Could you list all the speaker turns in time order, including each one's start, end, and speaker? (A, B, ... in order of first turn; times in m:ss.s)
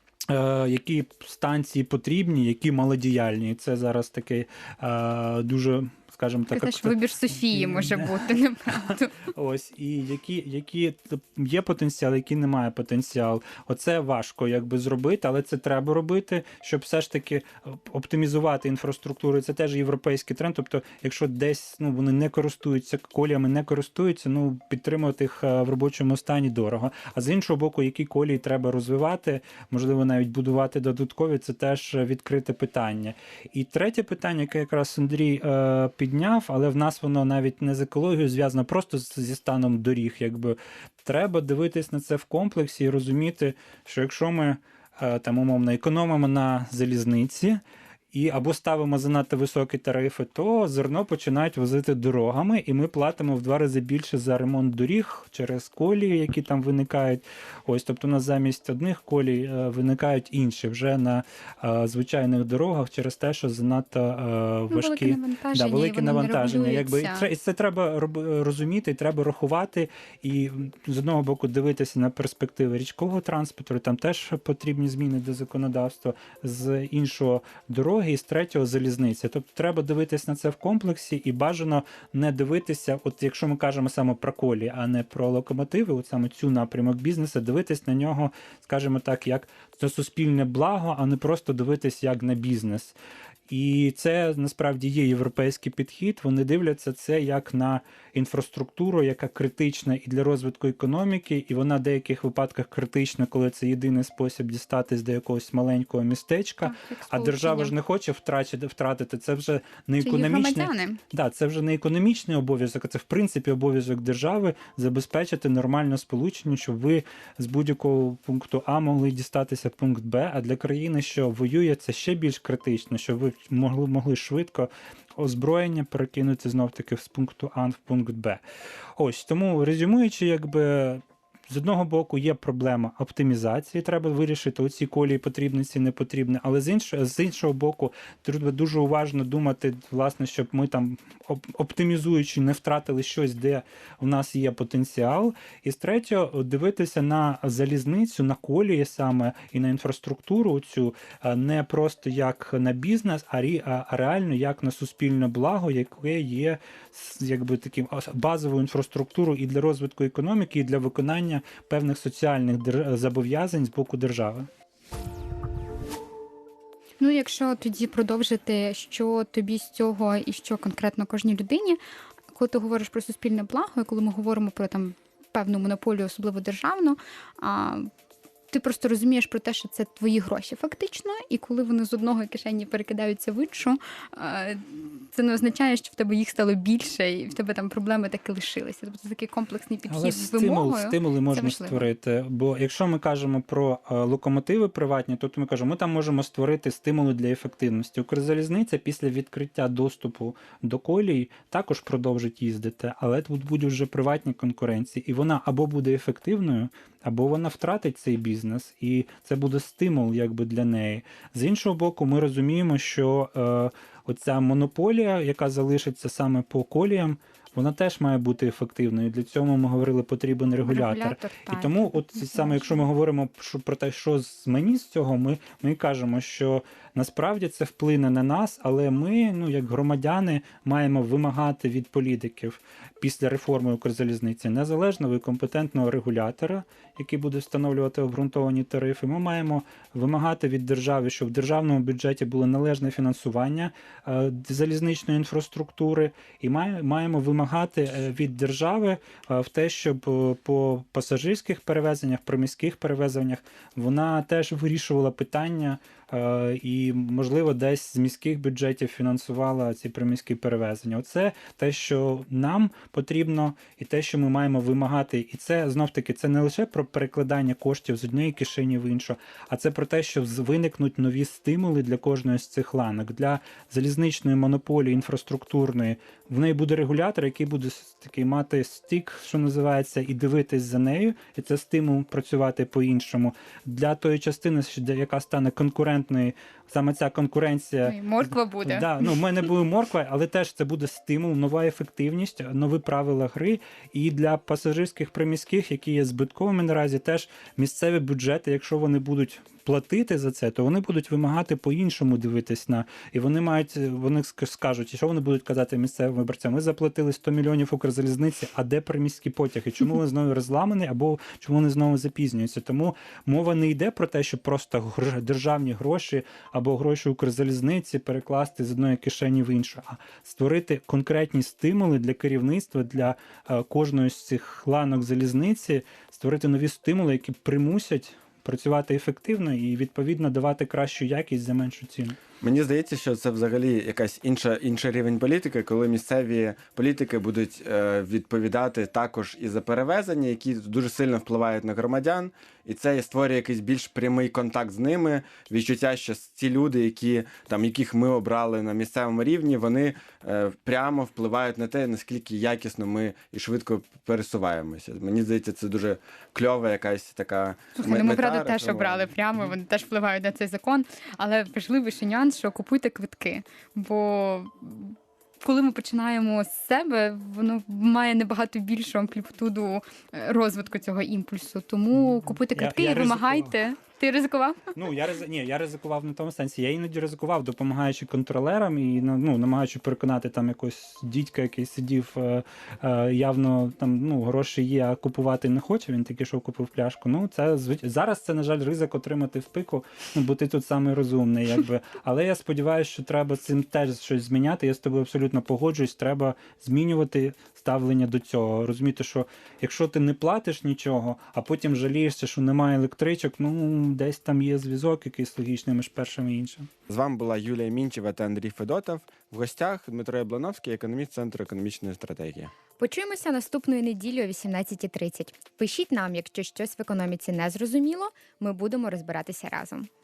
0:00.3-0:08.3 A
0:06.5-0:09.3 B
0:08.8-0:47.6 A
0:48.1-1:32.9 A
1:04.7-1:07.3 B
1:33.5-2:08.4 A
1:46.6-1:47.7 B
1:50.0-1:51.0 B
2:09.0-2:44.5 A
2:47.0-2:51.8 B
2:52.3-2:57.9 B
2:58.5-3:11.9 B
3:09.9-4:47.9 A
3:40.6-3:42.8 B
4:47.8-4:49.1 B
4:48.6-5:32.2 A
5:32.4-5:59.1 C
5:57.8-6:14.7 B
6:12.5-6:13.5 A
6:14.7-6:46.7 A
6:46.9-6:52.5 C
6:52.8-6:59.9 D